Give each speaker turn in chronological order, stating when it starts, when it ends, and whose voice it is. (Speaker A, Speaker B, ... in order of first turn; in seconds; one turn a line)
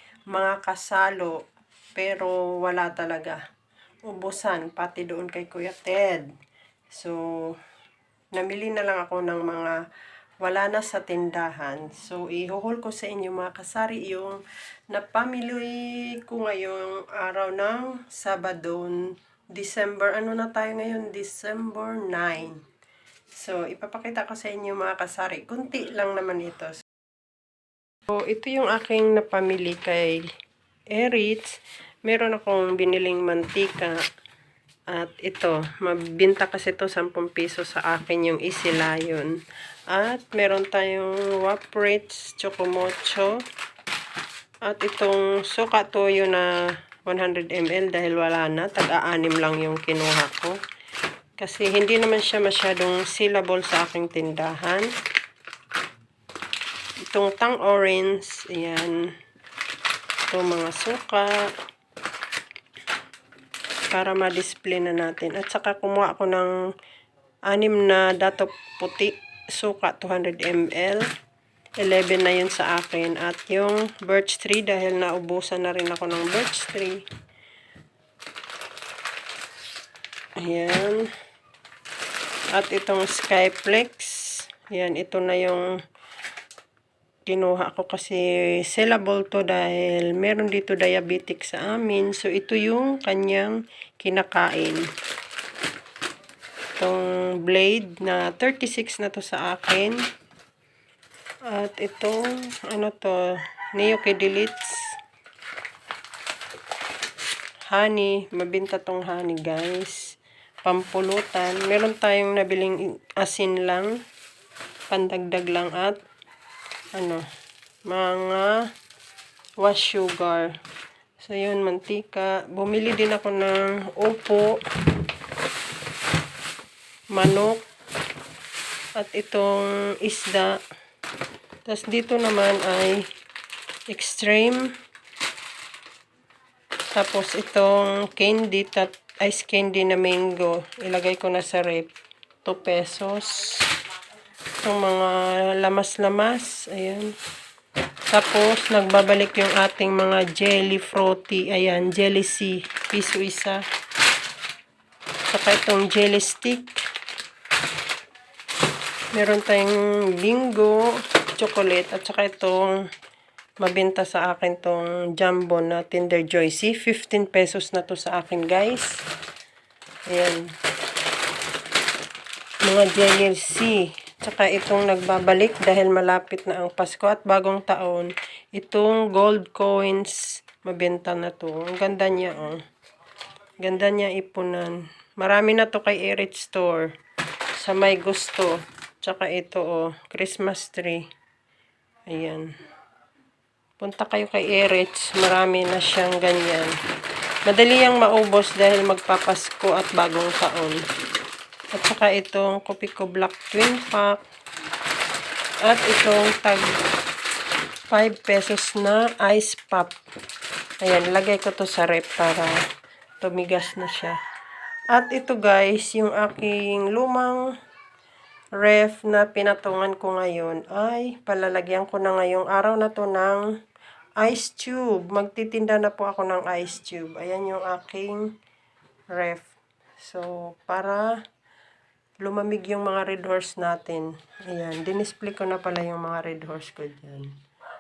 Speaker A: 0.3-1.4
Speaker A: 1.9-3.4
Speaker A: 4.1-6.3
Speaker A: 6.9-7.6
Speaker A: 8.3-9.8
Speaker A: 10.4-22.6
Speaker A: 23.4-26.8
Speaker A: 28.1-30.2
Speaker A: 30.9-31.5
Speaker A: 32.0-34.0
Speaker A: 34.9-39.4
Speaker A: 39.9-43.4
Speaker A: 44.7-50.6
Speaker A: 51.4-54.9
Speaker A: 57.1-59.1
Speaker A: 60.3-61.5
Speaker A: 63.9-66.5
Speaker A: 67.5-71.1
Speaker A: 71.8-77.0
Speaker A: 80.4-81.1
Speaker A: 82.5-85.7
Speaker A: 87.3-94.8
Speaker A: 96.8-100.0
Speaker A: 101.5-104.9
Speaker A: 107.7-114.0
Speaker A: 114.9-116.0
Speaker A: 117.0-117.2
Speaker A: 117.9-118.6
Speaker A: 119.6-120.5
Speaker A: 121.2-124.6
Speaker A: 127.1-127.6
Speaker A: 129.0-130.6
Speaker A: 131.7-133.1
Speaker A: 133.9-134.7
Speaker A: 136.9-141.9
Speaker A: 142.4-143.7
Speaker A: 144.6-147.2
Speaker A: 148.1-153.6
Speaker A: 155.3-156.8
Speaker A: 159.1-162.8
Speaker A: 163.6-169.0
Speaker A: 170.1-170.5
Speaker A: 172.6-182.6
Speaker A: 183.6-186.9
Speaker A: 187.6-191.1
Speaker A: 192.1-192.5
Speaker A: 193.8-196.7
Speaker A: 197.5-200.8
Speaker A: 201.7-204.2
Speaker A: 205.6-206.7
Speaker A: 207.9-210.0
Speaker A: 210.8-212.6
Speaker A: 213.2-214.2
Speaker A: 214.9-217.4
Speaker A: 218.6-223.4
Speaker A: 224.2-228.3
Speaker A: 229.1-231.2
Speaker A: 232.2-237.3